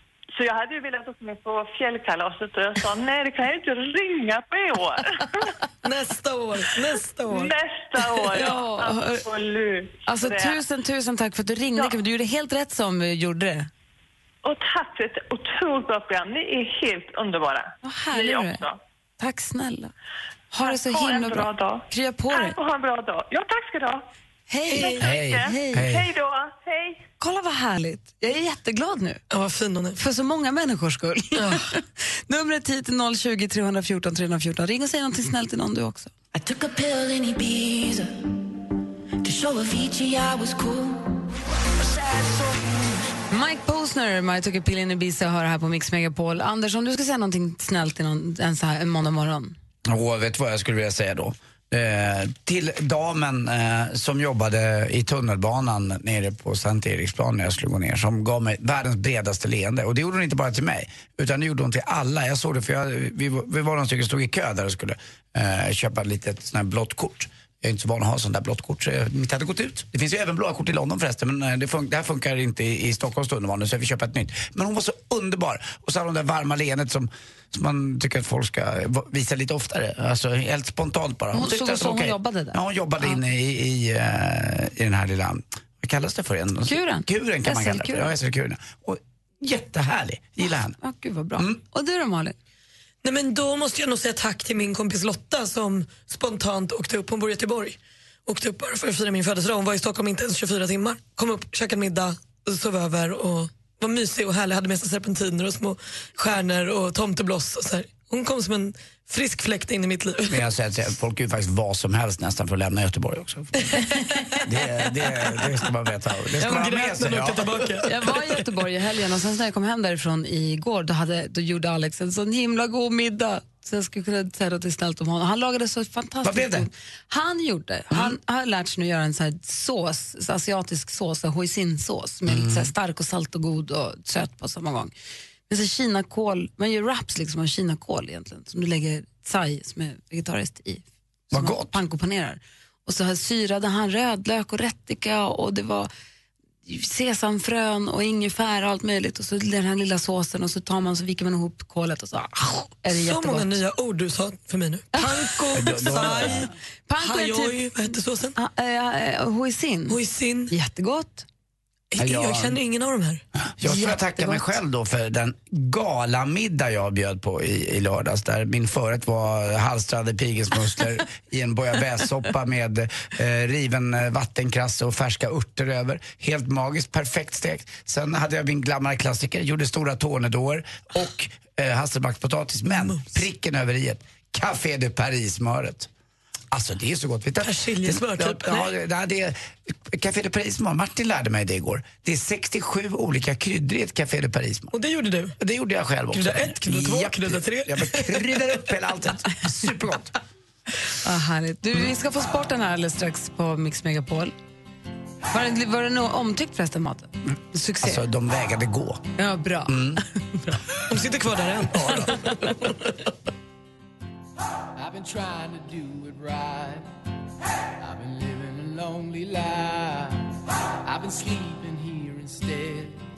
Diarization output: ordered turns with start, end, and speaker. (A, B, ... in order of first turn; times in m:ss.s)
0:00.4-0:05.6 A
0:05.8-0:07.5 B
0:07.3-0:10.6 A
0:08.3-0:09.2 C
0:10.1-0:13.7 C
0:14.4-0:18.8 A
0:17.8-0:18.6 C
0:19.2-0:19.9 C
0:20.5-0:22.6 C
0:20.6-0:24.1 A
0:24.5-0:25.9 C
0:24.7-0:27.0 A
0:24.7-0:25.0 B
0:25.0-0:26.1 D
0:27.2-0:29.2 C
0:29.3-0:30.0 B
0:30.0-0:36.1 C
0:31.4-0:31.7 B
0:36.3-0:38.3 E
0:39.2-0:41.2 E
0:41.9-0:42.7 E
0:43.3-0:49.6 C
0:49.9-1:30.8 D
1:21.3-1:23.2 C
1:26.7-1:28.1 C
1:30.8-1:32.4 C
1:33.0-1:50.4 B
1:50.3-1:53.8 D
1:54.3-1:57.8 D
1:56.4-1:58.3 B
1:57.8-2:14.9 C
2:06.2-2:06.7 D
2:07.9-2:08.2 D
2:12.3-2:12.7 D
2:15.5-2:25.9 C
2:21.3-2:21.8 D
2:26.7-2:33.6 C
2:32.9-2:38.4 B
2:34.9-2:40.0 C
2:35.5-2:36.5 D
2:39.9-2:40.5 B
2:40.5-2:41.3 C
2:41.9-2:43.2 B
2:42.0-2:42.6 D
2:43.6-3:05.9 D
2:43.6-2:44.5 C
3:06.5-3:14.7 D
3:07.4-3:08.7 B
3:14.7-3:15.4 B
3:15.4-3:20.1 D
3:16.1-3:18.5 B
3:21.0-3:24.3 C
3:25.3-3:28.0 C
3:27.8-3:29.0 D
3:29.2-3:30.6 C
3:29.7-3:30.0 D
3:30.8-3:32.9 B
3:34.8-3:36.9 F
3:37.8-3:40.3 F
3:40.8-3:43.0 F